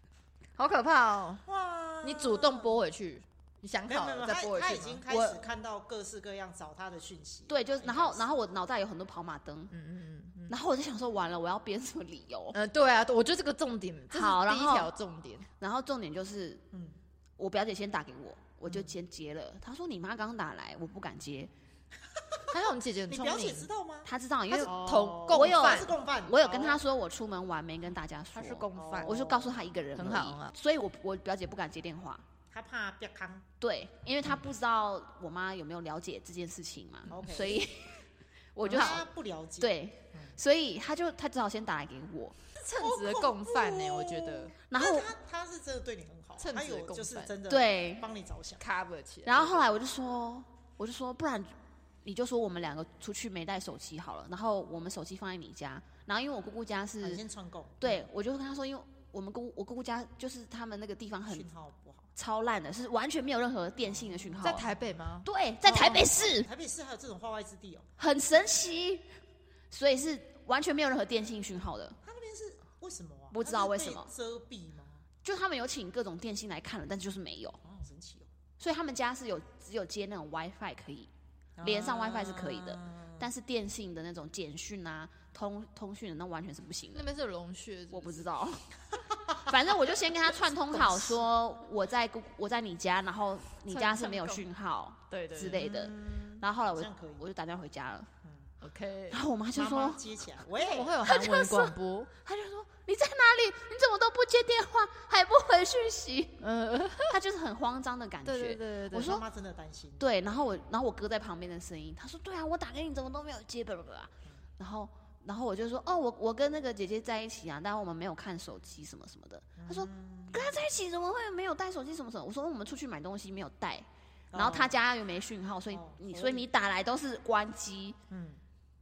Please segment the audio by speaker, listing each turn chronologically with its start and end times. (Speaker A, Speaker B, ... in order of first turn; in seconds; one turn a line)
Speaker A: 0.6-1.4
Speaker B: 1.5-2.8
Speaker A: 2.0-5.0
Speaker B: 3.9-8.3
Speaker C: 5.1-5.4
Speaker C: 7.5-9.7
Speaker A: 9.7-10.5
Speaker C: 10.5-12.6
Speaker A: 12.5-15.5
Speaker C: 14.1-14.9
Speaker C: 15.6-16.6
Speaker B: 16.7-17.0
Speaker C: 17.4-21.5
Speaker A: 22.5-23.7
Speaker B: 23.1-24.1
Speaker C: 24.1-32.2
Speaker A: 24.5-26.0
Speaker B: 24.6-26.8
Speaker A: 28.3-29.3
Speaker B: 28.7-29.6
Speaker A: 29.9-30.5
Speaker B: 32.5-33.5
Speaker C: 33.6-38.0
Speaker B: 37.1-37.7
Speaker C: 38.5-39.1
Speaker B: 38.6-40.4
Speaker A: 38.7-39.0
Speaker C: 39.6-42.4
Speaker A: 42.6-44.5
Speaker B: 42.8-48.6
Speaker C: 44.7-45.1
Speaker A: 46.4-47.3
Speaker C: 47.5-48.0
Speaker A: 48.6-49.7
Speaker C: 49.2-51.5
Speaker C: 52.0-57.2
Speaker B: 57.0-58.0
Speaker C: 57.8-61.5
Speaker B: 61.3-62.1
Speaker C: 62.1-64.7
Speaker B: 63.8-64.8
Speaker A: 64.4-66.1
Speaker C: 65.2-66.5
Speaker B: 65.8-67.9
Speaker C: 68.0-69.1
Speaker C: 69.7-72.0
Speaker B: 72.0-75.0
Speaker C: 73.3-74.1
Speaker C: 75.2-77.6
Speaker B: 77.6-78.3
Speaker C: 78.6-81.1
Speaker B: 81.6-83.3
Speaker C: 81.6-87.1
Speaker A: 87.0-88.2
Speaker C: 87.9-88.7
Speaker C: 89.3-98.1
Speaker A: 90.8-91.2
Speaker A: 93.7-94.5
Speaker A: 95.1-95.7
Speaker B: 95.4-97.2
Speaker B: 98.2-98.5
Speaker A: 98.6-99.2
Speaker C: 99.1-100.0
Speaker B: 99.5-101.0
Speaker A: 100.5-102.1
Speaker C: 101.1-106.4
Speaker A: 106.4-107.2
Speaker C: 107.1-109.2
Speaker A: 108.2-109.2
Speaker B: 108.9-110.2
Speaker C: 110.0-128.0
Speaker B: 119.6-120.5
Speaker B: 124.3-124.8
Speaker B: 125.7-126.5
Speaker B: 128.1-128.4